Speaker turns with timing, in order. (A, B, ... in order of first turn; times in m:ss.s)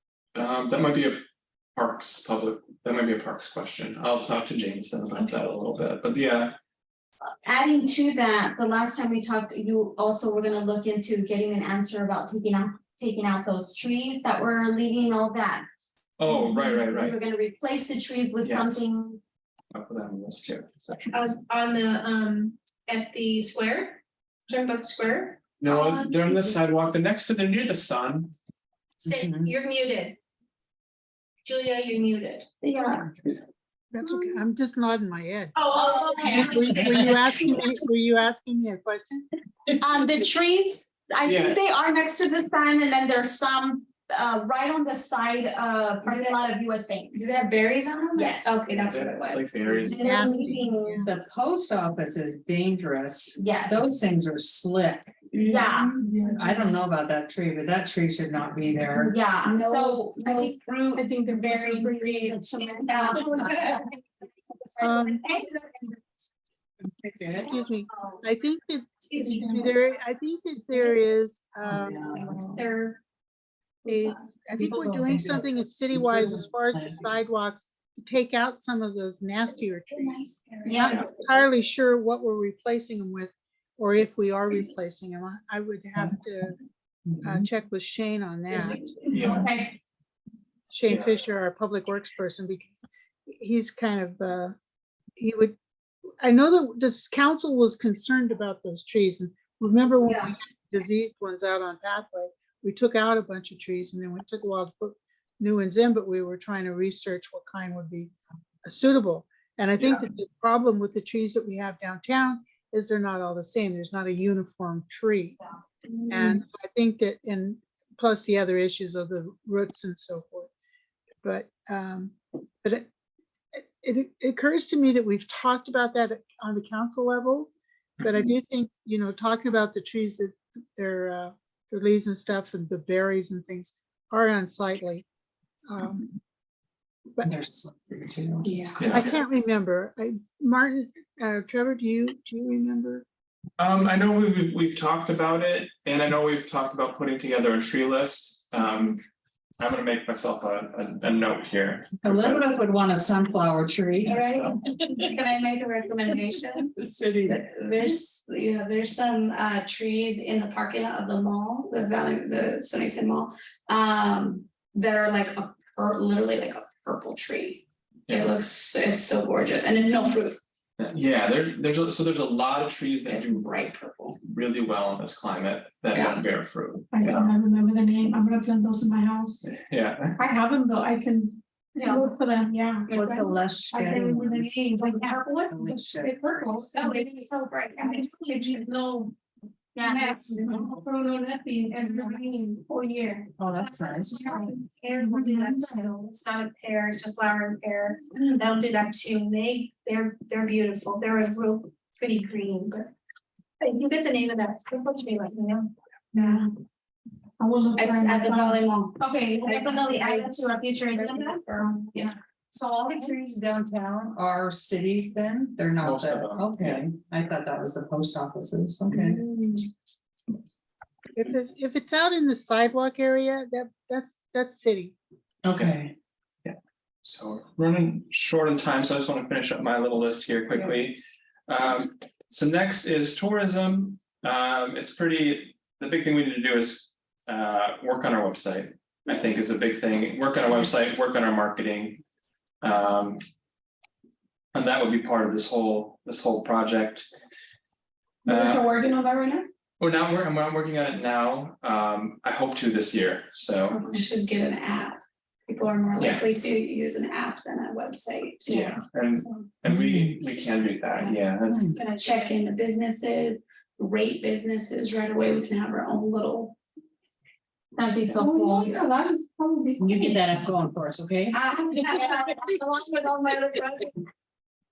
0:00.3-0:01.2 A
0:01.8-0:06.5 A
0:07.4-0:15.7 B
0:16.2-0:17.2 A
0:16.2-0:19.2 B
0:18.4-0:18.9 A
0:19.7-0:21.0 A
0:21.1-0:25.4 C
0:25.6-0:28.3 A
0:25.8-0:26.1 D
0:29.0-0:30.2 C
0:29.0-0:29.5 E
0:31.4-0:32.6 C
0:32.6-0:33.0 B
0:33.9-0:39.3 F
0:35.6-0:36.9 C
0:35.9-0:37.6 D
0:39.8-0:47.2 B
0:41.2-0:41.6 A
0:46.0-0:46.4 D
0:47.1-0:50.2 D
0:48.1-0:48.6 B
0:48.9-0:50.1 A
0:49.9-0:51.0 B
0:50.0-0:51.1 F
0:51.0-0:55.1 E
0:53.3-0:53.9 B
0:55.3-0:56.0 D
0:55.5-0:55.9 B
0:56.0-0:56.6 G
0:56.3-0:59.2 E
0:59.0-1:03.8 B
1:01.0-1:03.3 G
1:02.9-1:03.8 D
1:04.8-1:05.2 F
1:04.8-1:05.8 B
1:07.0-1:07.5 E
1:07.4-1:12.1 F
1:09.1-1:09.8 C
1:11.7-1:12.6 E
1:12.1-1:12.4 D
1:12.2-1:13.0 C
1:13.8-1:20.3 F
1:14.5-1:17.1 E
1:20.0-1:20.7 C
1:20.6-1:21.0 B
1:20.7-1:21.0 D
1:20.8-1:26.6 F
1:27.2-1:28.8 F
1:28.5-1:29.4 D
1:29.1-1:29.5 A
1:29.3-1:29.8 B
1:30.7-1:34.5 F
1:35.2-1:35.6 F
1:36.2-1:48.1 F
1:40.0-1:40.3 B
1:48.6-1:55.4 F
1:56.0-1:56.4 D
1:56.1-2:00.5 F
2:01.2-2:02.8 F
2:03.6-2:15.0 F
2:15.7-2:16.2 F
2:17.2-2:18.5 E
2:18.4-2:18.8 D
2:18.8-2:19.2 A
2:18.9-2:23.0 F
2:23.6-2:29.0 A
2:29.6-2:32.4 A
2:32.0-2:35.1 E
2:34.0-2:36.7 D
2:34.2-2:34.6 A
2:36.1-2:37.4 E
2:37.2-2:50.4 D
2:48.1-2:48.3 A
2:50.8-2:53.7 A
2:53.0-2:54.2 D
2:54.2-2:57.4 A
2:55.9-2:56.2 D
2:56.9-2:59.4 G
2:59.4-3:00.2 A
3:00.2-3:06.8 G
3:01.8-3:02.1 B
3:02.9-3:04.5 E
3:05.0-3:05.3 C
3:05.5-3:06.5 E
3:06.8-3:08.1 B
3:07.8-3:09.2 G
3:09.7-3:10.7 B
3:09.9-3:13.0 G
3:11.8-3:12.4 B
3:13.4-3:14.2 E
3:13.8-3:22.9 C
3:15.2-3:15.9 B
3:23.6-3:26.4 C
3:26.1-3:26.5 G
3:27.4-3:28.5 G
3:27.7-3:32.1 D
3:29.0-3:32.1 B
3:32.5-3:39.2 E
3:35.8-3:36.8 A
3:38.9-3:39.2 D
3:41.1-3:44.9 F
3:45.4-3:45.9 E
3:45.5-3:45.8 A
3:46.4-4:02.0 A
4:02.6-4:03.2 A
4:04.5-4:07.1 A
4:08.2-4:08.7 A
4:08.3-4:09.4 G
4:09.8-4:14.0 A
4:13.7-4:19.5 D
4:16.0-4:16.3 A
4:18.4-4:21.7 A
4:19.6-4:20.2 E
4:21.5-4:21.8 E
4:21.7-4:26.6 D
4:27.7-4:28.7 B
4:28.1-4:30.2 G
4:29.8-4:31.4 E
4:31.3-4:32.2 D
4:31.9-4:33.9 B